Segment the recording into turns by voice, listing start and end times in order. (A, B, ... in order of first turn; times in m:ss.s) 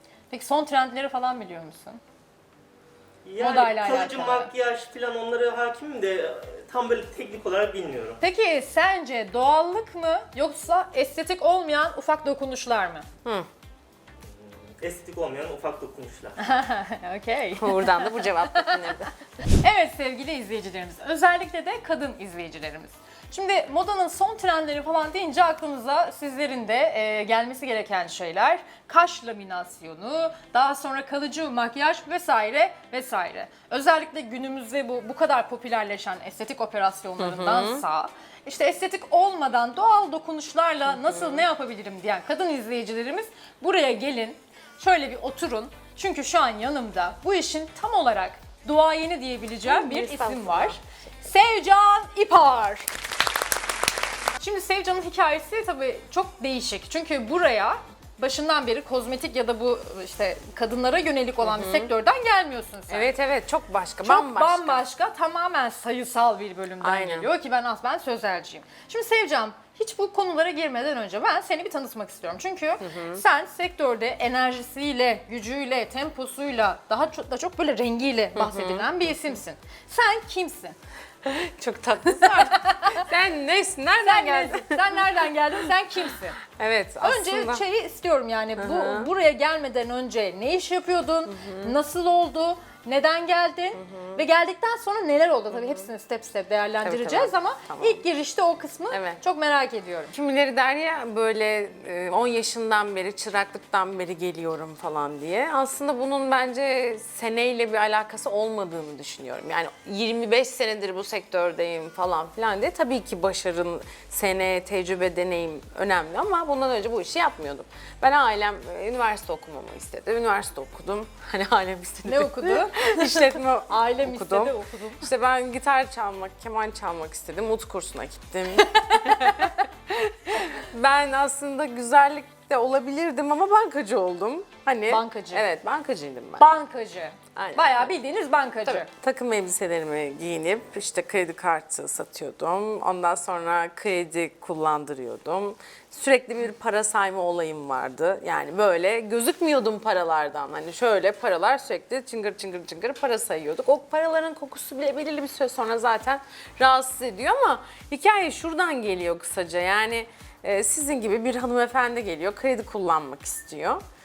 0:00.3-0:02.0 A
0:03.2-0:08.2 B
0:03.4-0:04.5 A
0:08.2-0:13.1 A
0:14.3-0:16.4 B
0:16.4-0:18.8 A
0:17.6-0:19.1 C
0:19.6-0:52.9 A
0:37.2-0:37.8 C
0:41.0-0:41.4 C
0:49.7-0:50.8 C
0:54.4-1:03.1 A
1:01.4-1:01.9 C
1:02.9-1:04.8 C
1:04.0-1:20.8 A
1:06.8-1:07.3 C
1:12.8-1:13.2 C
1:18.4-1:18.9 C
1:21.2-1:27.6 C
1:22.2-1:23.1 A
1:24.0-1:26.4 A
1:27.0-1:40.2 A
1:28.6-1:29.1 C
1:31.3-1:31.7 C
1:33.8-1:34.2 C
1:35.6-1:35.8 C
1:36.8-1:38.0 C
1:38.9-1:39.2 C
1:40.1-2:16.5 C
2:02.0-2:05.1 A
2:08.6-2:09.7 A
2:14.9-2:15.4 A
2:16.4-2:18.9 A
2:17.4-2:17.9 C
2:18.7-2:43.8 C